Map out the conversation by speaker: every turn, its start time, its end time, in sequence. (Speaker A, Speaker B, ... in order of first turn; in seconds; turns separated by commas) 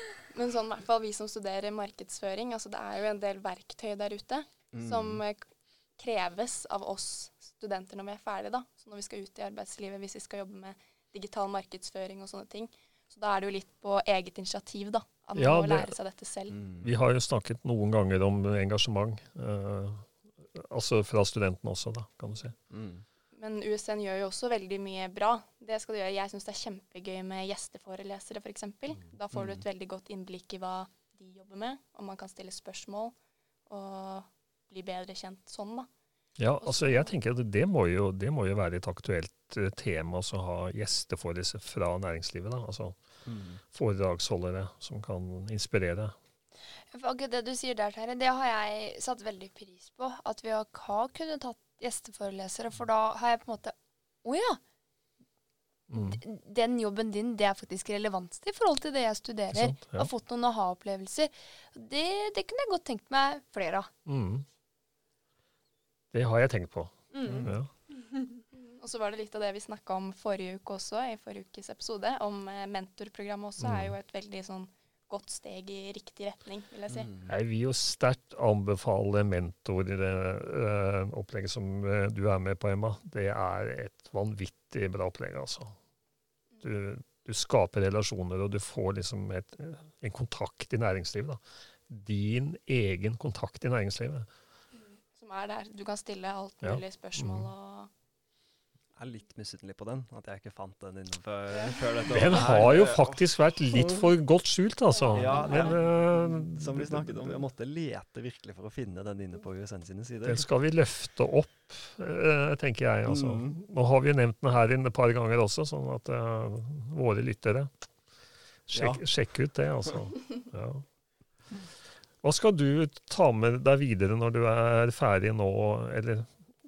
Speaker A: 0.3-16.6, Speaker B: 4.7-5.2, Speaker C: 15.3-15.9, Speaker B: 16.5-16.9, Speaker C: 16.8-22.5, Speaker B: 22.7-23.0, Speaker A: 23.3-35.9, Speaker B: 29.3-29.6, Speaker C: 36.4-43.0, Speaker A: 36.6-37.1, Speaker B: 43.2-43.6, Speaker C: 43.6-46.1, Speaker D: 46.9-54.6, Speaker C: 55.9-56.2, Speaker D: 55.9-63.9, Speaker C: 59.5-60.1, Speaker C: 64.0-64.5, Speaker C: 66.1-67.7, Speaker D: 67.1-68.4, Speaker B: 67.2-67.5, Speaker A: 68.5-77.1, Speaker C: 73.6-74.0, Speaker B: 76.9-77.3, Speaker C: 77.2-85.8, Speaker C: 86.6-94.3, Speaker A: 94.8-97.9, Speaker C: 96.6-97.5, Speaker B: 99.0-104.1, Speaker C: 102.1-107.4, Speaker A: 105.1-105.7, Speaker B: 105.1-110.5, Speaker C: 110.2-117.7, Speaker B: 113.0-113.5, Speaker C: 118.7-120.8, Speaker B: 118.7-119.0, Speaker C: 122.2-126.3